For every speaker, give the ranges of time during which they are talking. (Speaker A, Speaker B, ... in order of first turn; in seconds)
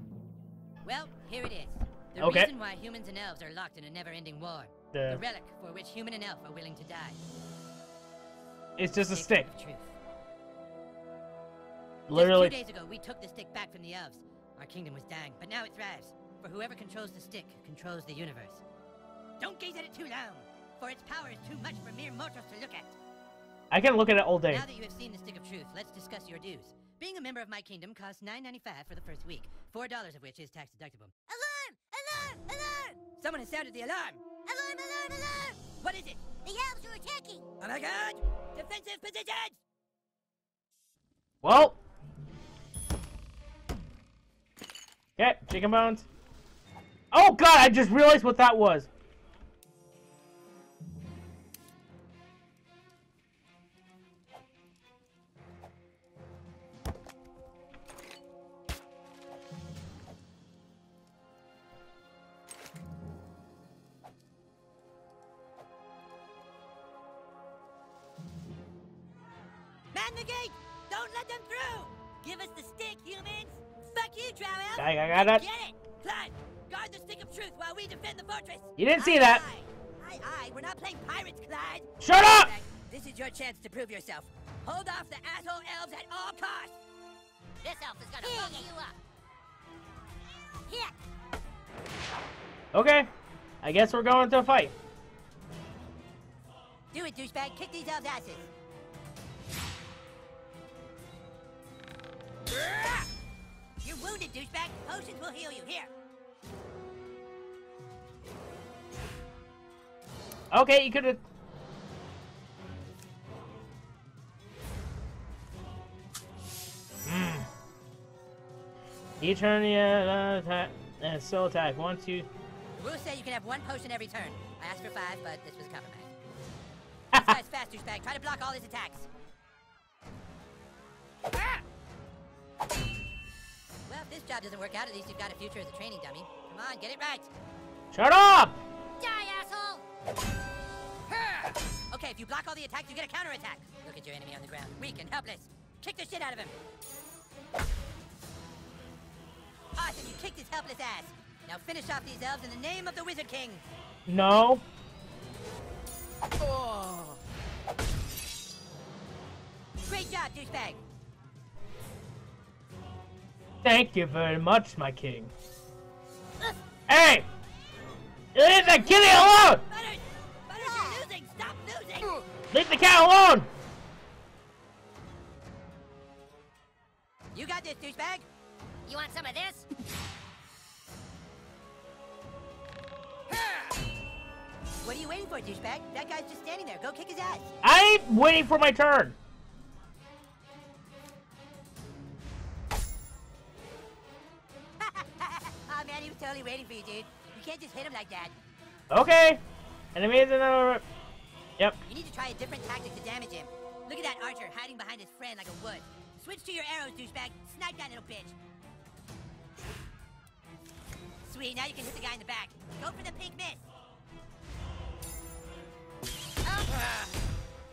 Speaker A: 0.8-7.2, 9.0-9.9, 12.1-18.6, 19.4-23.0, 24.5-31.1, 33.2-34.2, 35.8-36.2, 37.6-39.6, 69.9-86.8, 88.2-88.7, 96.9-98.5, 102.5-103.0, 103.8-105.9, 122.8-126.1, 127.1-129.1, 133.9-137.3, 141.9-146.6, 149.8-153.7, 156.4-157.2, 159.9-160.8, 168.8-172.2, 177.3-178.3, 184.8-187.5, 194.8-198.3, 201.9-208.3, 211.2-213.6
Speaker B: 2.2-2.5, 4.9-5.2, 8.8-9.5, 12.1-12.6, 23.7-24.6, 41.4-41.8, 45.2-46.1, 47.1-48.9, 74.8-75.4, 78.8-79.4, 82.0-82.5, 92.7-93.1, 93.6-94.8, 110.5-111.2, 117.0-117.5, 119.2-122.3, 127.1-127.4, 137.9-138.6, 154.1-154.6, 163.6-165.3, 166.9-167.3, 168.3-169.6, 172.5-173.5, 187.6-189.2, 198.9-199.4, 199.9-200.8
Speaker C: 31.3-33.0, 34.5-35.6, 36.4-37.5, 87.6-88.9, 90.7-90.9, 139.0-139.8, 170.6-171.1, 178.9-179.7, 216.5-216.7